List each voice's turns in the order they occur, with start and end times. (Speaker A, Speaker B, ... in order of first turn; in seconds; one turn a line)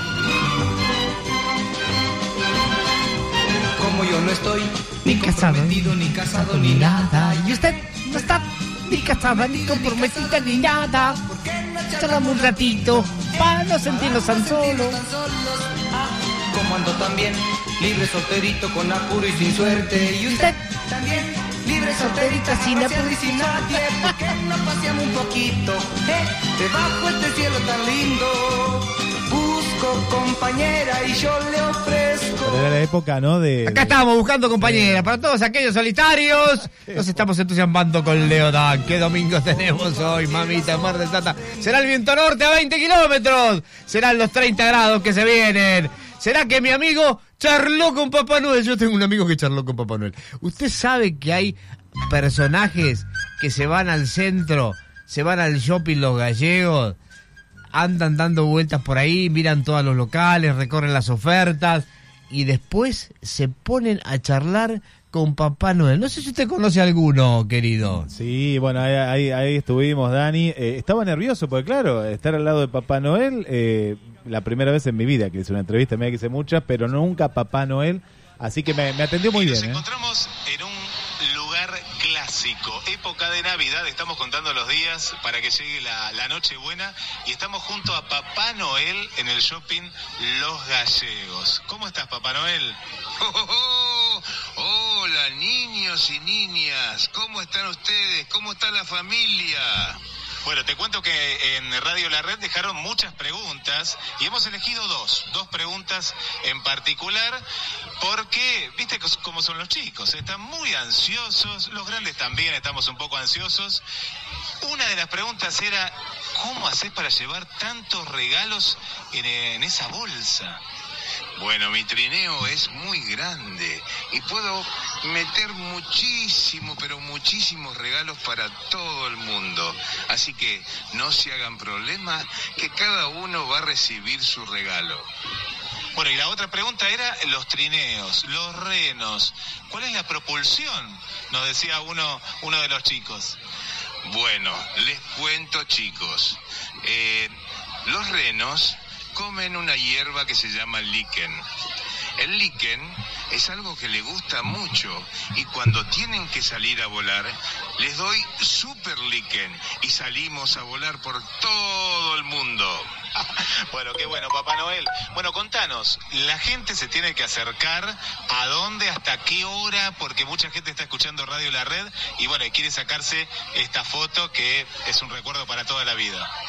Speaker A: 3.8-8.0
Speaker B: 5.1-5.9
Speaker B: 6.5-11.2
Speaker A: 9.0-32.6
Speaker B: 12.0-15.0
Speaker B: 22.1-23.2
Speaker C: 32.4-34.0
Speaker B: 33.7-57.0
Speaker C: 34.6-35.1
Speaker B: 57.7-68.1
Speaker C: 68.0-79.8
Speaker D: 79.3-107.4
Speaker D: 108.0-113.8
Speaker D: 114.6-120.6
Speaker D: 121.4-122.9
Speaker E: 121.6-135.0
Speaker D: 124.1-124.4
Speaker D: 125.0-125.4
Speaker D: 130.4-131.0
Speaker D: 135.9-143.4
Speaker E: 144.1-146.3
Speaker D: 144.7-145.3
Speaker D: 146.8-147.3
Speaker D: 147.9-150.1
Speaker E: 147.9-148.7
Speaker E: 149.2-151.3
Speaker D: 150.7-151.3
Speaker E: 152.2-162.8
Speaker D: 158.3-161.1
Speaker D: 162.5-176.3